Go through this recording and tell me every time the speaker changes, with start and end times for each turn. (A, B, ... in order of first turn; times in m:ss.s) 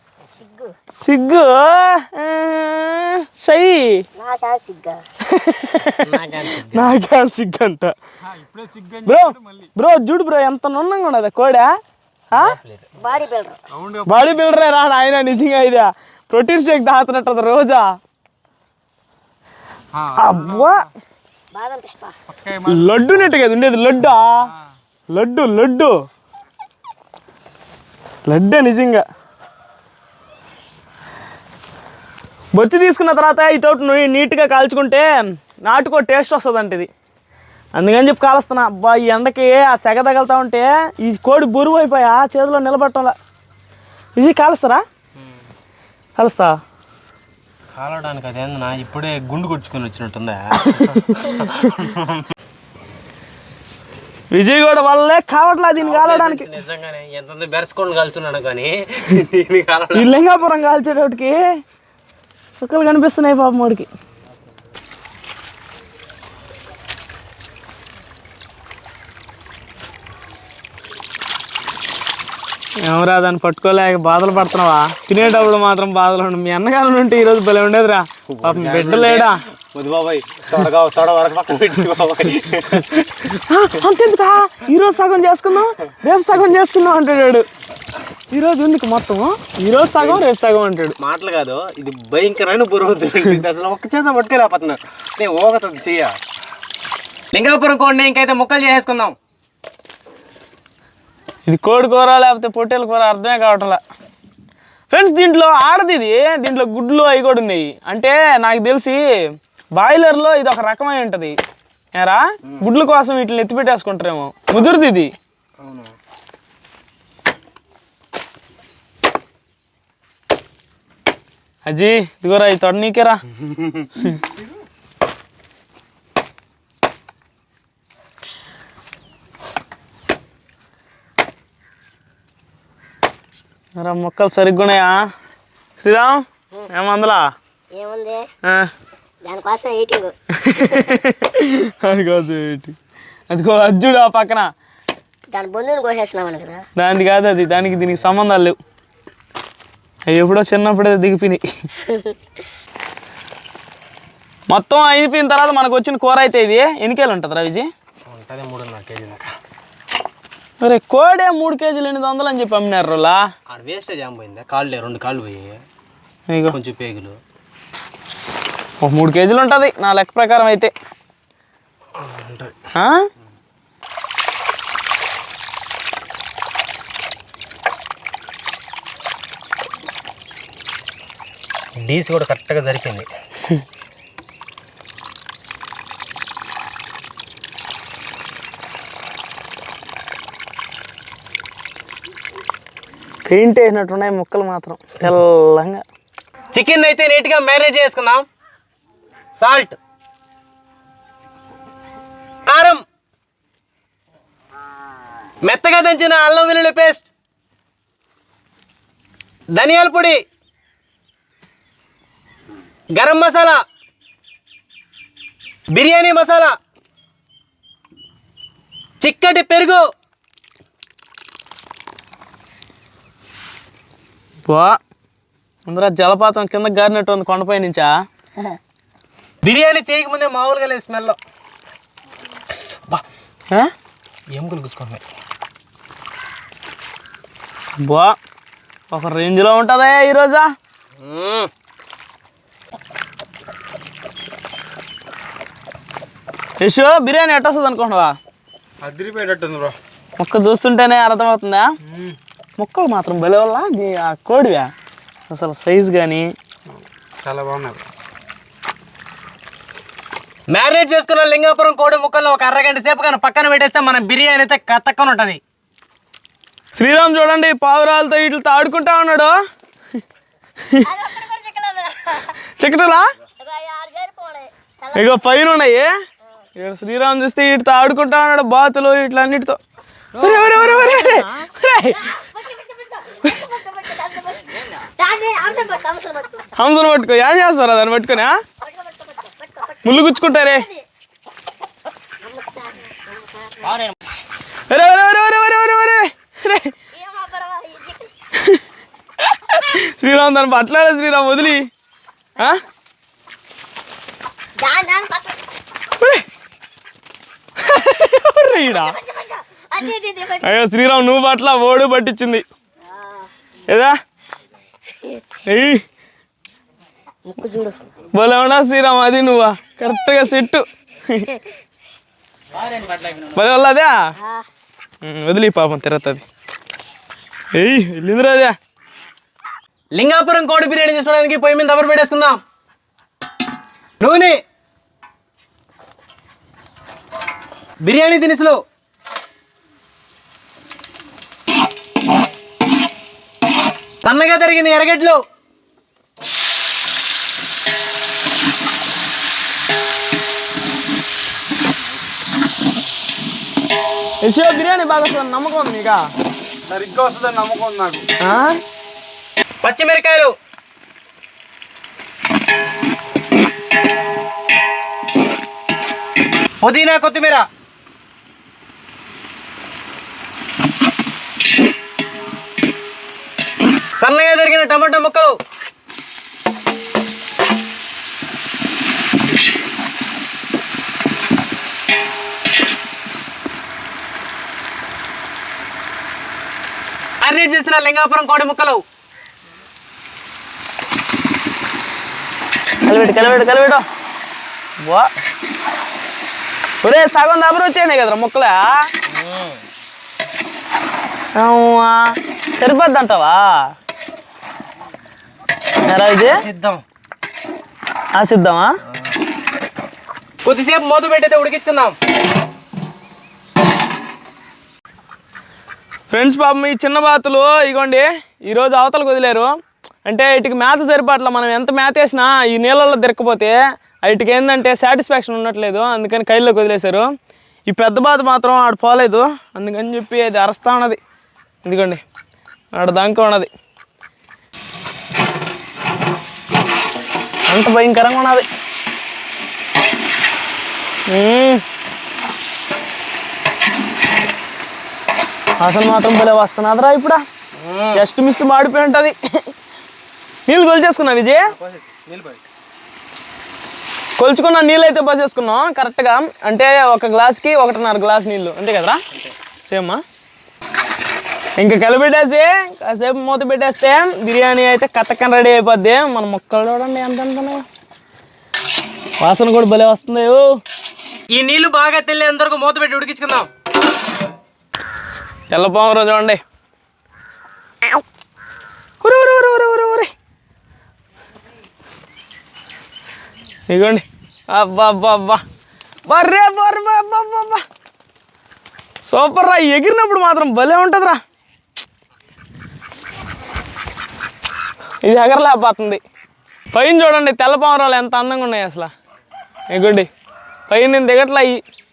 0:00.4-0:00.7 A
0:01.0-0:04.0 B
0:04.2-0:05.0 A
0:05.2-0:06.1 B
0:06.0-0:07.0 C
0:06.7-0:07.9 B
0:08.2-0:09.7 D
0:09.0-0:11.7 B
0:12.3-0:12.9 C
0:13.0-0:13.6 A
0:13.7-0:14.4 D
0:14.1-0:17.9 B
0:19.9-0:20.8 D
0:20.2-0:20.8 B
0:21.5-0:22.1 A
0:22.3-0:23.3 D
0:22.7-0:24.5 B
0:25.1-0:26.1 B
0:28.2-0:29.0 B
0:32.5-0:36.9 B
0:37.8-0:43.1 B
0:44.2-0:44.8 B
0:46.2-0:46.6 B
0:47.7-0:52.2 C
0:50.6-0:51.5 B
0:54.3-0:56.4 B
0:55.8-1:00.1 C
0:59.9-1:01.4 B
1:02.6-1:03.9 B
1:12.8-1:19.4 B
1:15.2-1:15.5 C
1:18.3-1:23.2 C
1:23.3-1:27.4 B
1:28.3-1:30.9 B
1:30.0-1:30.3 C
1:31.0-1:36.2 C
1:37.3-1:39.2 C
1:41.5-1:43.8 B
1:44.9-1:49.0 B
1:49.8-1:51.4 B
1:52.0-1:55.1 B
1:54.5-1:54.8 C
1:55.6-1:55.9 C
2:01.7-2:03.2 B
2:03.3-2:03.9 C
2:13.8-2:15.0 B
2:15.8-2:17.3 B
2:17.7-2:18.3 A
2:18.4-2:18.7 B
2:19.2-2:20.1 A
2:20.4-2:22.7 B
2:23.3-2:24.5 B
2:25.3-2:26.6 A
2:26.8-2:28.6 B
2:30.1-2:31.4 B
2:31.8-2:32.1 A
2:34.5-2:37.7 B
2:38.1-2:39.3 C
2:40.6-2:43.2 B
2:43.5-2:45.6 C
2:46.3-2:46.6 B
2:46.5-2:47.2 C
2:48.8-2:50.7 B
2:52.0-2:52.5 C
2:52.7-2:53.0 B
3:01.8-3:03.1 C
3:13.2-3:15.8 B
3:16.5-3:18.2 C
3:19.3-3:19.8 C
3:22.5-3:22.8 C
3:25.4-3:27.1 C
3:29.5-3:30.2 C
3:32.9-3:33.6 C
3:35.7-3:36.5 C
3:39.0-3:39.8 C
3:44.4-3:44.8 B
3:45.7-3:47.9 B
3:49.4-3:51.2 C
3:52.5-3:53.0 C
3:54.3-3:55.0 C
3:57.8-3:58.2 B
3:58.9-4:00.5 B
4:01.0-4:01.5 C
4:06.6-4:08.2 B
4:08.8-4:09.7 D
4:10.2-4:11.7 B
4:11.8-4:12.2 D
4:12.6-4:14.7 B
4:15.3-4:16.3 B
4:17.2-4:17.8 D
4:20.5-4:25.4 C
4:26.7-4:29.4 B
4:30.8-4:32.3 A
4:32.6-4:33.1 B
4:33.4-4:35.2 A
4:34.9-4:35.9 B
4:36.6-4:39.6 B
4:40.1-4:41.4 C
4:40.2-4:42.1 B
4:42.0-4:46.5 A
4:46.6-4:48.4 B
4:48.6-4:50.8 A
4:49.8-4:50.6 B
4:52.2-4:53.8 A
4:54.7-4:56.7 B
4:56.9-4:58.1 A
4:59.2-5:01.7 B
5:04.6-5:05.4 A
5:06.0-5:06.2 B
5:07.6-5:08.9 B
5:08.7-5:10.5 A
5:10.4-5:12.4 B
5:12.8-5:13.3 A
5:13.7-5:14.0 B
5:15.5-5:15.8 B
5:17.2-5:17.8 A
5:18.1-5:21.3 B
5:23.2-5:24.0 B
5:24.2-5:24.4 A
5:25.0-5:26.2 B
5:27.5-5:28.5 B
5:29.9-5:32.4 C
5:34.0-5:34.4 C
5:37.8-5:38.6 C
5:44.0-5:45.2 C
5:54.2-5:56.1 B
5:56.7-5:58.0 D
5:58.2-5:58.6 B
5:59.6-6:00.4 C
6:06.6-6:07.5 C
6:14.0-6:15.4 C
6:27.2-6:28.8 C
6:32.8-6:33.8 B
6:34.8-6:35.1 B
6:36.8-6:38.8 B
6:39.1-6:39.6 C
6:41.4-6:43.7 B
6:45.9-6:46.4 B
6:46.2-6:46.8 C
6:48.2-6:48.7 B
6:50.4-6:52.0 C
6:56.1-6:59.5 B
7:00.1-7:07.1 B
7:07.7-7:11.0 B
7:11.6-7:12.0 B
7:12.7-7:13.5 B
7:17.5-7:18.4 B
7:21.1-7:21.6 B
7:25.6-7:27.2 B
7:27.5-7:28.0 C
7:27.9-7:29.4 B
7:30.5-7:31.5 B
7:31.5-7:32.4 C
7:34.2-7:39.0 B
7:39.6-7:40.0 B
7:41.6-7:47.6 B
7:49.2-7:50.5 B
7:51.3-7:53.5 C
7:55.5-7:56.4 B
7:59.0-8:00.1 B
8:03.7-8:05.4 B
8:06.1-8:07.6 B
8:09.0-8:11.2 B
8:15.0-8:16.0 B
8:16.7-8:18.9 B
8:19.7-8:20.1 B
8:20.7-8:21.6 B